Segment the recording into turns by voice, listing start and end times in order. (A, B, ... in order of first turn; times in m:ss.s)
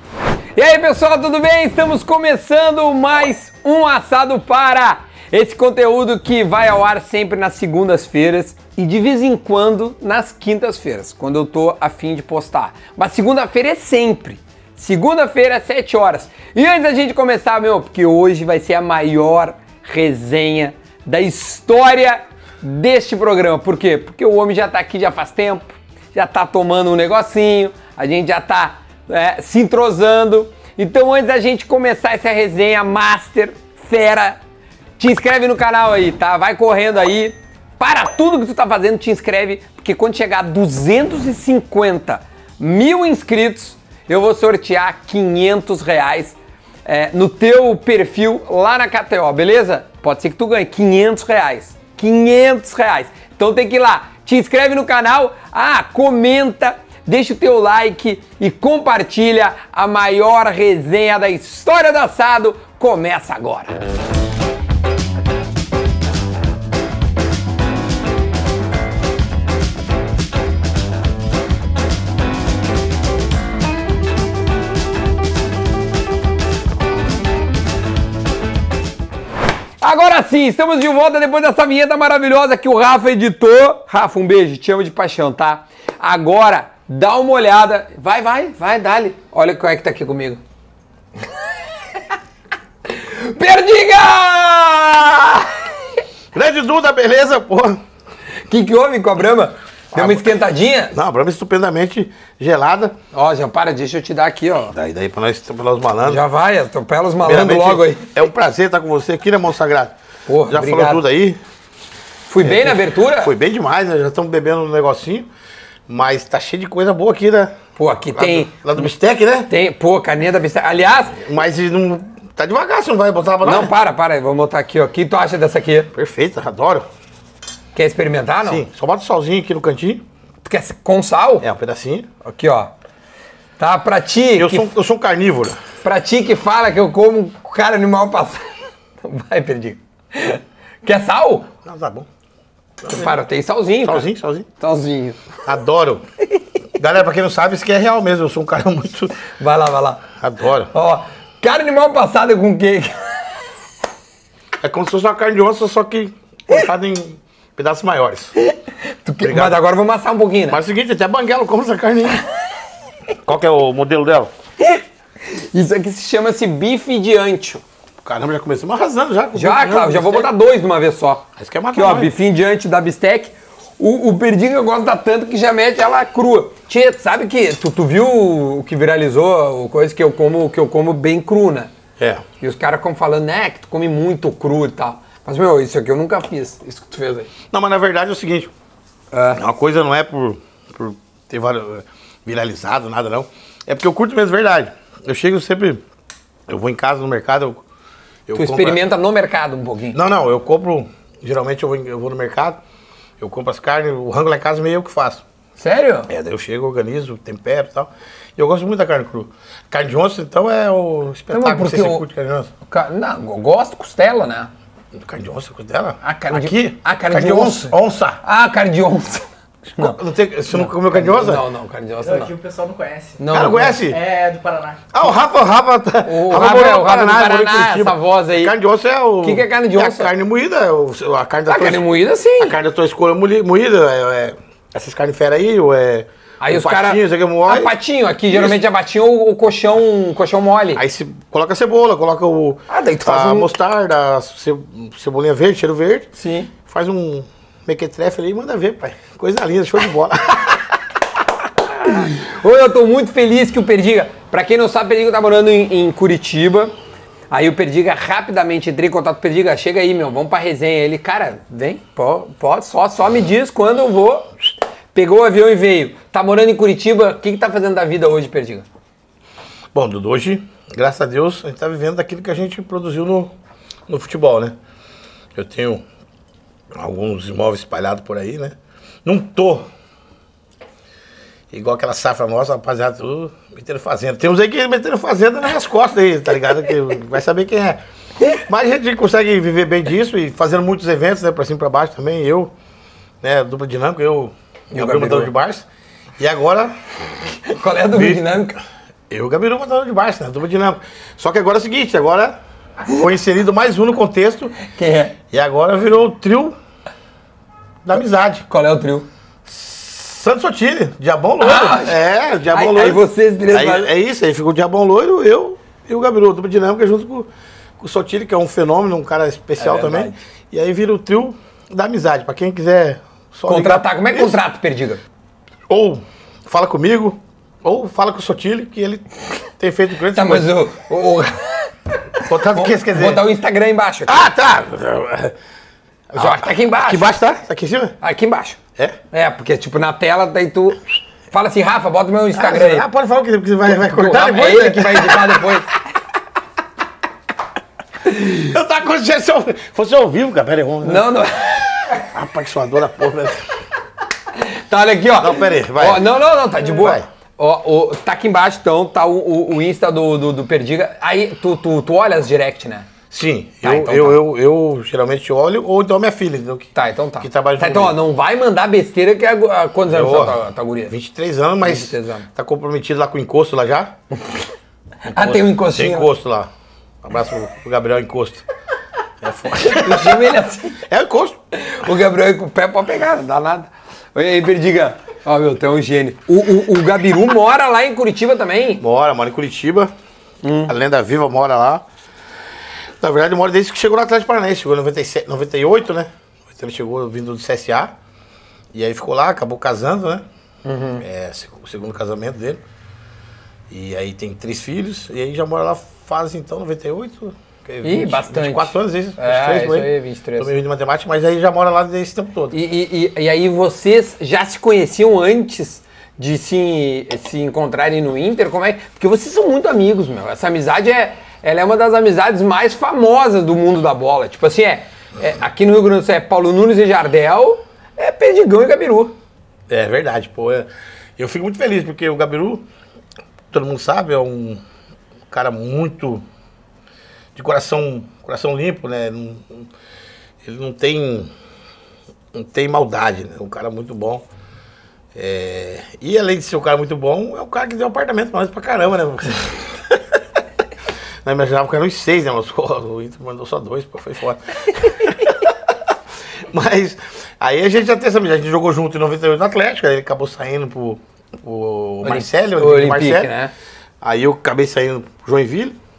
0:00.6-0:34.4 A
0:35.0-1:03.8 A
1:19.8-1:30.4 A
1:32.9-1:36.0 A
1:36.3-1:37.8 B
1:38.5-1:40.9 A
1:39.9-1:40.2 B
1:40.9-1:43.0 B
1:43.1-1:44.7 A
1:44.7-1:46.2 B
1:46.0-1:48.1 A
1:47.2-1:50.0 B
1:50.3-1:51.0 A
1:50.5-1:51.4 B
1:52.3-1:53.3 A
1:52.4-1:55.3 B
1:55.9-1:57.6 B
1:57.8-1:58.9 A
1:58.1-1:59.5 B
1:59.5-2:01.2 A
2:01.2-2:03.7 B
2:03.4-2:05.9 A
2:05.9-2:06.9 B
2:07.7-2:08.6 A
2:08.4-2:10.0 B
2:10.4-2:11.4 A
2:11.4-2:12.1 B
2:12.2-2:12.7 A
2:13.6-2:14.7 A
2:14.4-2:15.6 B
2:15.8-2:18.5 A
2:19.0-2:21.5 A
2:21.6-2:22.1 B
2:22.9-2:24.1 A
2:23.8-2:24.5 B
2:24.6-2:25.2 A
2:25.4-2:26.1 B
2:26.8-2:29.2 B
2:29.3-2:30.0 A
2:30.2-2:30.7 B
2:30.7-2:33.0 A
2:34.6-2:38.4 B
2:38.4-2:40.6 A
2:39.2-2:39.6 B
2:40.5-2:42.2 B
2:43.2-2:44.3 B
2:44.6-2:47.6 A
2:48.0-2:50.3 B
2:49.4-3:01.7 A
2:51.4-2:52.1 B
3:02.0-3:02.2 B
3:02.4-3:07.3 A
3:07.5-3:08.5 B
3:09.1-3:09.4 A
3:09.4-3:15.8 B
3:16.5-3:17.6 B
3:18.3-3:18.8 B
3:18.4-3:20.0 A
3:19.9-3:22.6 B
3:23.2-3:25.2 B
3:25.6-3:26.1 A
3:26.1-3:32.5 B
3:31.3-3:32.0 A
3:32.7-3:34.5 A
3:35.0-3:38.2 B
3:36.0-3:40.0 A
3:39.8-3:41.4 B
3:40.5-3:42.3 A
3:42.0-3:43.3 C
3:43.2-3:43.8 A
3:43.3-3:44.0 B
3:43.8-3:44.8 C
3:44.9-3:51.8 B
3:46.0-3:48.5 A
3:49.2-3:50.1 A
3:51.5-3:52.6 A
3:52.4-3:57.7 B
3:56.4-4:00.8 A
3:58.3-3:58.6 B
4:00.8-4:06.1 B
4:02.7-4:03.5 A
4:06.2-4:06.5 A
4:06.6-4:10.6 B
4:11.8-4:16.7 A
4:17.3-4:24.3 A
4:24.9-4:28.7 A
4:29.7-4:33.3 B
4:33.9-4:34.6 B
4:35.4-4:35.8 B
4:36.8-4:39.7 B
4:41.5-4:52.5 B
4:53.2-4:55.7 B
4:54.7-4:55.3 A
4:56.2-4:56.8 B
4:57.4-4:58.6 A
4:57.9-4:58.3 B
4:59.1-5:04.6 B
5:04.6-5:05.2 A
5:05.3-5:06.6 B
5:07.8-5:08.4 B
5:08.5-5:09.1 A
5:09.5-5:24.4 B
5:11.4-5:12.0 A
5:12.5-5:13.9 A
5:19.6-5:20.2 A
5:23.5-5:25.0 A
5:25.7-5:29.0 B
5:29.6-5:30.6 B
5:30.1-5:34.3 A
5:32.2-5:33.2 B
5:34.1-5:35.4 B
5:36.1-5:38.0 B
5:36.2-5:37.2 A
5:38.0-5:38.6 A
5:39.1-5:42.9 A
5:42.3-5:45.6 B
5:43.7-5:45.7 A
5:48.1-5:48.4 A
5:48.2-5:51.1 B
5:50.8-5:52.0 A
5:52.0-5:53.5 B
5:54.3-6:02.9 A
5:55.2-5:56.1 B
5:56.8-5:57.0 B
6:03.1-6:08.0 B
6:03.6-6:04.2 A
6:06.8-6:10.9 A
6:09.9-6:14.0 B
6:11.6-6:12.3 A
6:15.1-6:16.5 B
6:15.1-6:16.1 A
6:17.0-6:18.4 B
6:19.2-6:21.4 B
6:19.6-6:20.8 A
6:21.5-6:28.8 A
6:28.8-6:29.9 B
6:30.4-6:30.7 A
6:30.6-6:31.8 B
6:33.0-6:37.9 B
6:38.7-6:40.2 B
6:40.6-6:41.0 A
6:41.0-6:42.6 B
6:43.7-6:52.6 B
6:47.8-6:50.5 A
6:52.5-7:09.2 A
7:09.7-7:12.7 B
7:13.5-7:14.6 B
7:15.3-7:16.2 B
7:17.4-7:19.7 B
7:20.4-7:21.3 B
7:22.3-7:24.2 B
7:25.2-7:30.0 B
7:31.2-7:35.5 B
7:36.5-7:43.3 B
7:42.0-7:43.5 A
7:44.0-7:45.8 B